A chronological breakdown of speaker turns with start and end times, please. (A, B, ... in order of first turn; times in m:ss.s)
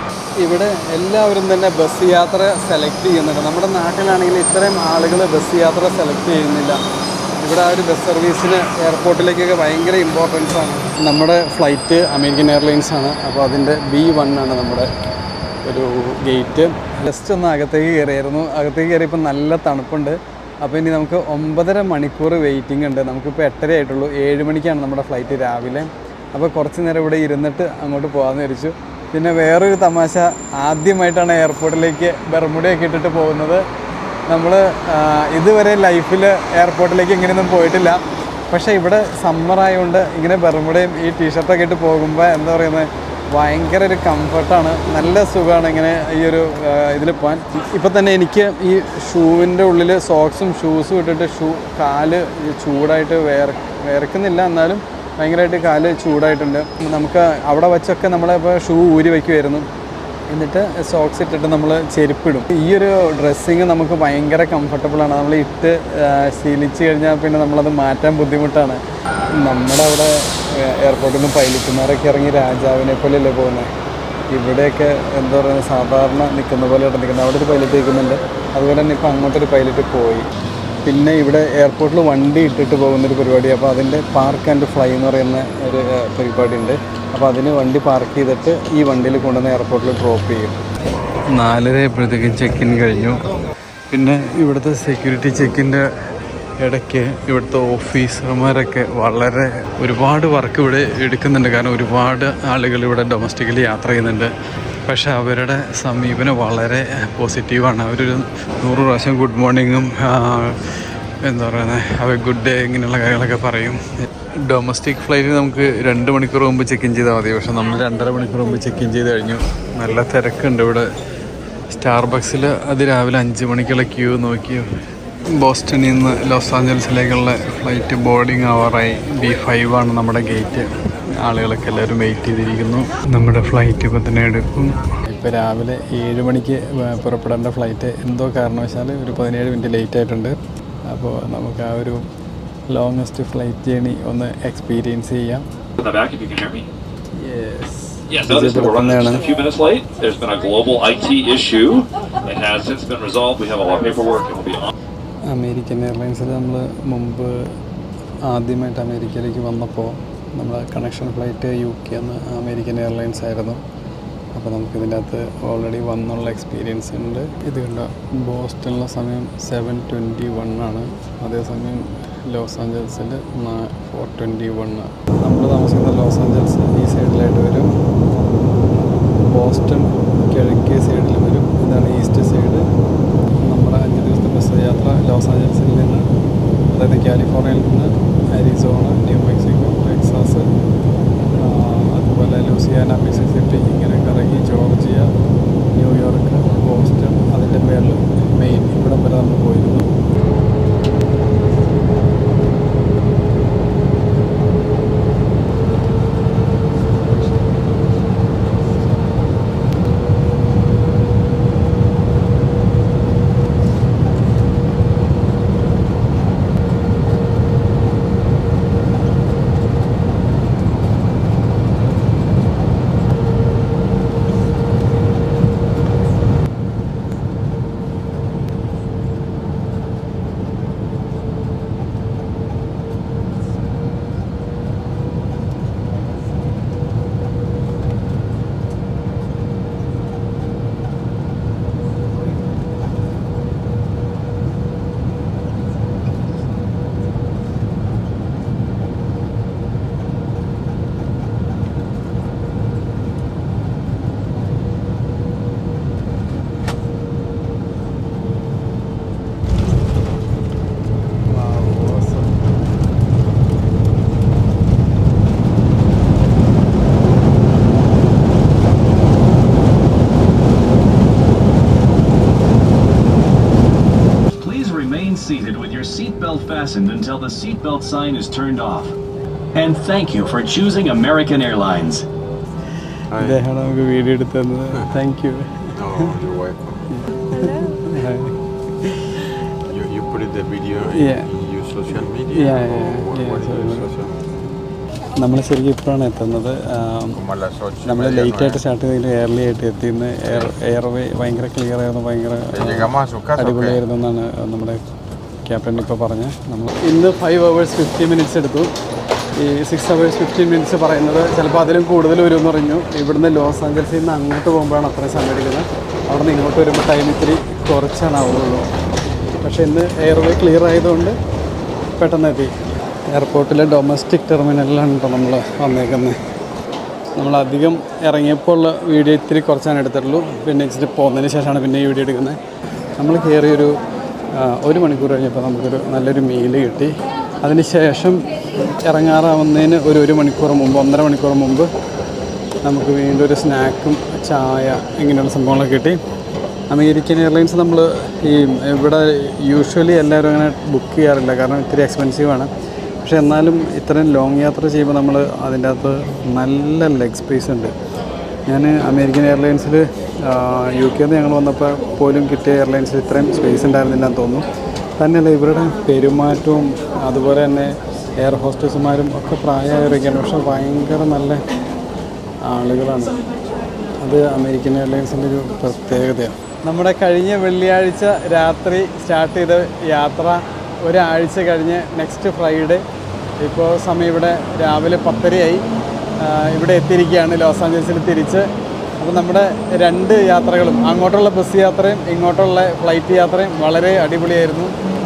0:00.4-0:06.8 A
0:07.4-0:14.9 A
0:15.6-0:33.6 A
0:34.3-0:59.7 A
1:00.3-1:08.8 A
1:09.3-1:13.7 A
1:14.3-1:20.3 A
1:20.8-1:30.6 A
1:31.3-1:33.3 A
1:33.9-1:35.9 A
1:36.6-1:44.3 A
1:44.8-2:00.9 A
2:01.7-2:04.7 A
2:05.3-2:22.0 A
2:22.7-2:25.4 A
2:25.8-2:26.6 B
2:27.1-2:29.3 A
2:28.1-2:34.7 B
2:35.2-2:37.6 A
2:38.2-2:43.6 A
2:44.3-2:57.8 A
2:59.1-3:02.7 A
3:03.4-3:06.1 A
3:06.7-3:10.5 A
3:11.3-3:15.1 A
3:15.7-3:19.9 A
4:21.3-4:22.4 A
4:34.4-4:38.9 C
4:39.5-4:42.0 C
4:43.1-4:43.4 D
4:43.1-4:46.1 A
4:45.8-4:46.9 D
4:46.9-4:49.3 A
4:49.6-4:54.2 D
4:50.9-4:51.3 A
4:52.3-4:53.9 A
4:55.2-4:57.3 A
4:57.1-4:58.6 D
4:57.8-5:04.8 A
5:02.5-5:03.8 D
5:05.4-5:08.7 A
5:09.4-5:18.7 A
5:19.4-5:21.2 A
5:22.0-5:26.2 A
5:27.2-5:32.4 A
5:33.0-5:33.8 A
5:34.3-5:41.7 A
5:42.6-5:46.0 A
5:46.7-5:52.5 A
5:53.0-5:57.7 A
5:58.5-6:04.5 A
6:05.0-6:11.4 A
6:12.4-6:13.2 A
6:14.0-6:22.8 A
6:23.4-6:25.6 A
6:26.2-6:28.5 A
6:29.0-6:34.7 A